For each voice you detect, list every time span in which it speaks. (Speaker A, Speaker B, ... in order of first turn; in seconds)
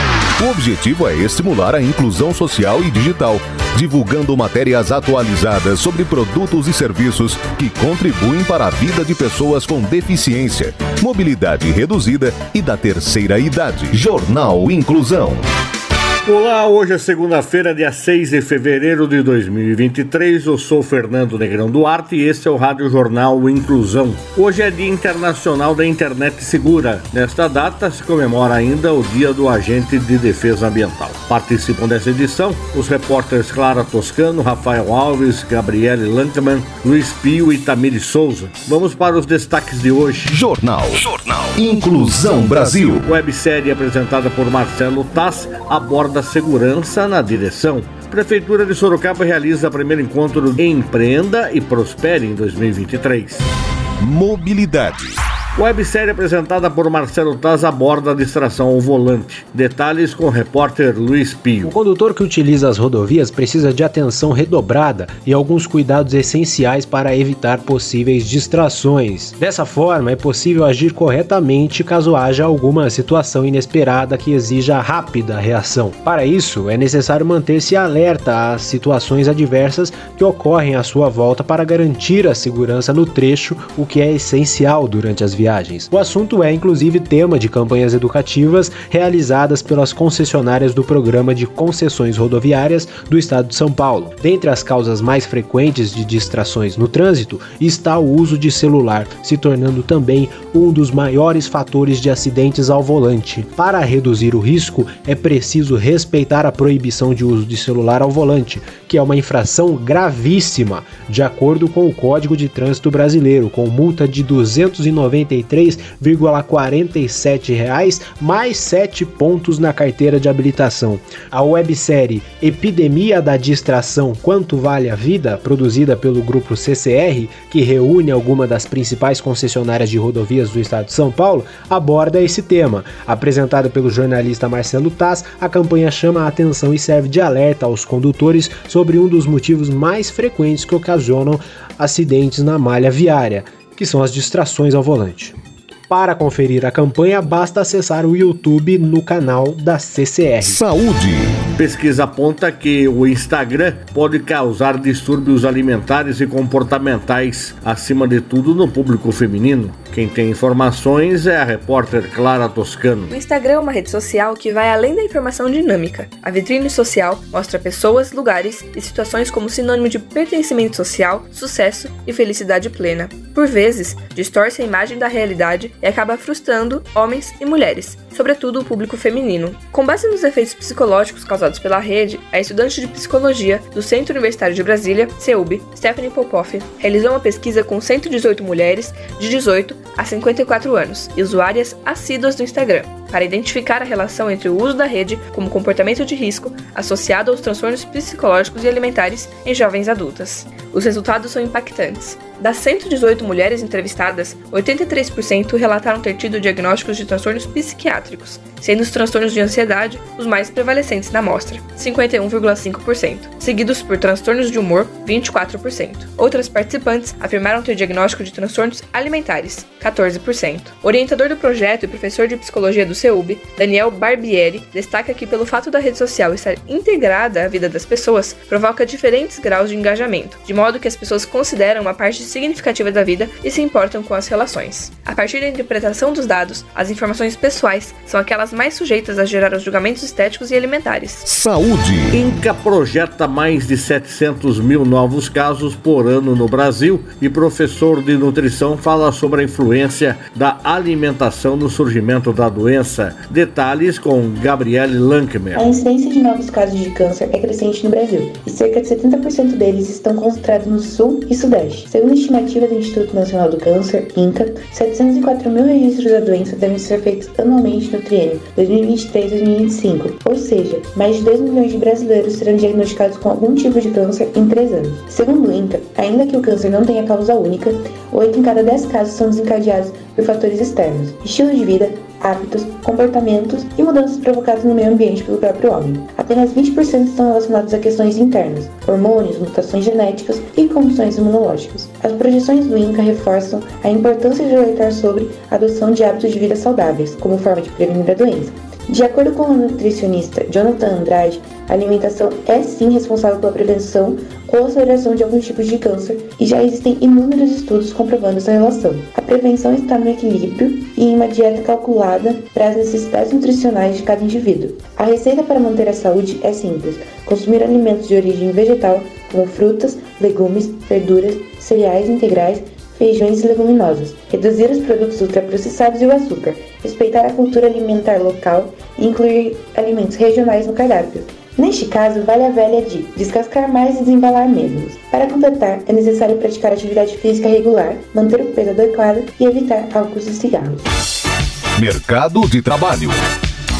Speaker A: 0.4-15.4, 40.3-43.0, 54.0-55.1, 150.4-151.3, 241.2-242.1, 341.8-343.2
Speaker B: 16.2-40.4, 42.5-53.5, 55.5-61.7, 151.6-163.1, 242.1-255.7
Speaker C: 61.6-145.3, 145.9-150.6
Speaker D: 163.1-241.2
Speaker E: 255.5-340.8